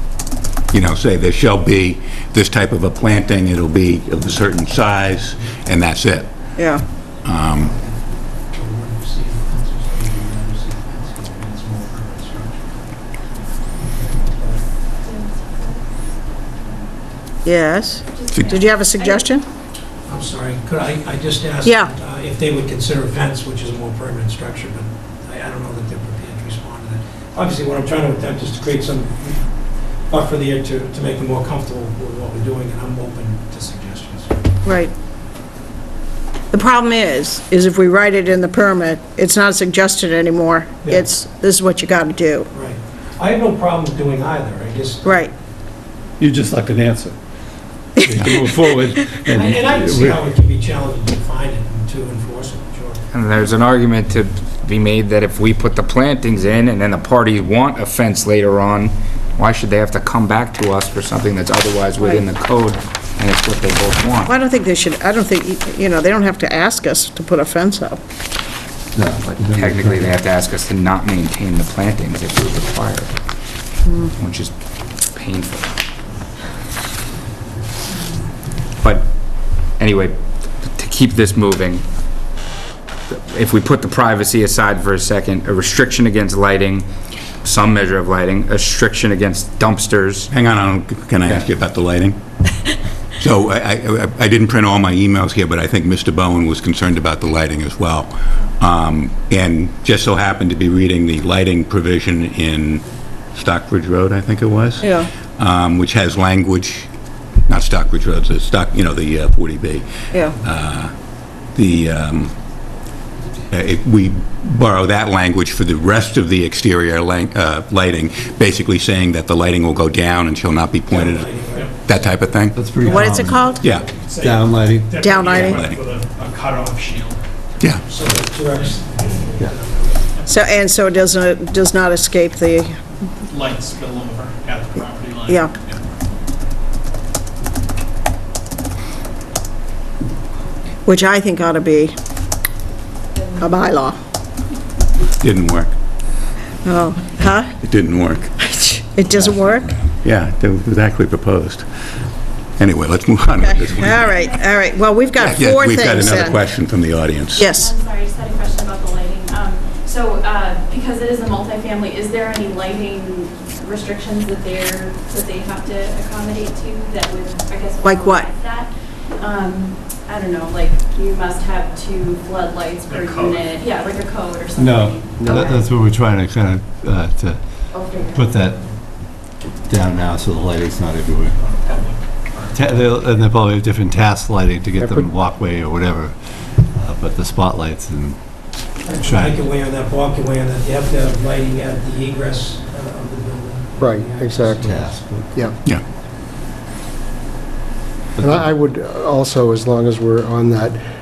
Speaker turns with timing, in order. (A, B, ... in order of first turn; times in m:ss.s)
0:00.7-0:06.3 A
0:06.6-0:06.8 B
0:07.2-0:07.7 A
0:07.4-0:14.7 C
0:15.0-0:16.8 D
0:17.4-0:19.4 B
0:18.1-0:19.3 D
0:18.3-0:18.6 A
0:20.1-0:29.4 C
0:21.6-0:21.9 B
0:30.1-0:34.3 C
0:34.6-0:34.9 B
0:36.5-0:42.5 B
0:42.5-0:45.3 C
0:45.0-0:45.3 B
0:46.2-0:47.2 E
0:48.0-0:50.4 E
0:49.3-0:53.0 C
0:53.1-1:04.3 F
1:02.0-1:02.2 B
1:04.3-1:08.0 B
1:09.0-1:10.2 E
1:09.6-1:13.1 F
1:13.8-1:14.1 B
1:14.2-1:14.5 F
1:15.1-1:15.7 F
1:18.8-1:19.1 F
1:19.7-1:21.8 F
1:23.3-1:26.8 F
1:27.4-1:30.3 F
1:30.3-1:32.2 A
1:33.2-1:46.9 A
1:44.8-1:45.1 B
1:47.5-1:50.9 A
1:51.5-1:52.3 A
1:53.5-2:01.3 A
2:00.9-2:01.7 C
2:01.8-2:02.6 A
2:02.5-2:03.5 E
2:02.8-2:03.6 B
2:03.5-2:07.2 G
2:03.6-2:03.9 A
2:04.2-2:05.0 E
2:05.0-2:05.6 B
2:05.4-2:05.8 A
2:07.9-2:10.0 C
2:08.0-2:09.5 G
2:10.1-2:10.5 G
2:10.3-2:12.8 B
2:13.3-2:15.9 G
2:15.3-2:15.5 B
2:20.8-2:21.9 B
2:23.4-2:24.0 B
2:25.2-2:25.7 A
2:26.6-2:27.5 B
2:27.6-2:28.4 A
2:28.4-2:29.7 B
2:29.2-2:31.6 A
2:32.6-2:34.1 A
2:33.4-2:36.4 B
2:33.9-2:34.7 D
2:35.2-2:37.5 A
2:37.4-2:37.7 B
2:37.5-2:55.6 D
2:47.8-2:48.3 B
2:52.8-2:53.6 G
2:54.5-2:57.4 E
2:55.2-2:55.5 H
2:57.7-2:58.2 D
2:58.1-2:58.6 E
2:59.7-3:01.4 E
3:01.3-3:03.2 G
3:02.5-3:06.2 E
3:04.8-3:05.1 H
3:06.7-3:08.2 E
3:08.8-3:15.0 C
3:08.9-3:09.5 E
3:13.8-3:14.8 H
3:14.6-3:15.4 E
3:18.2-3:18.5 E
3:18.2-3:20.8 H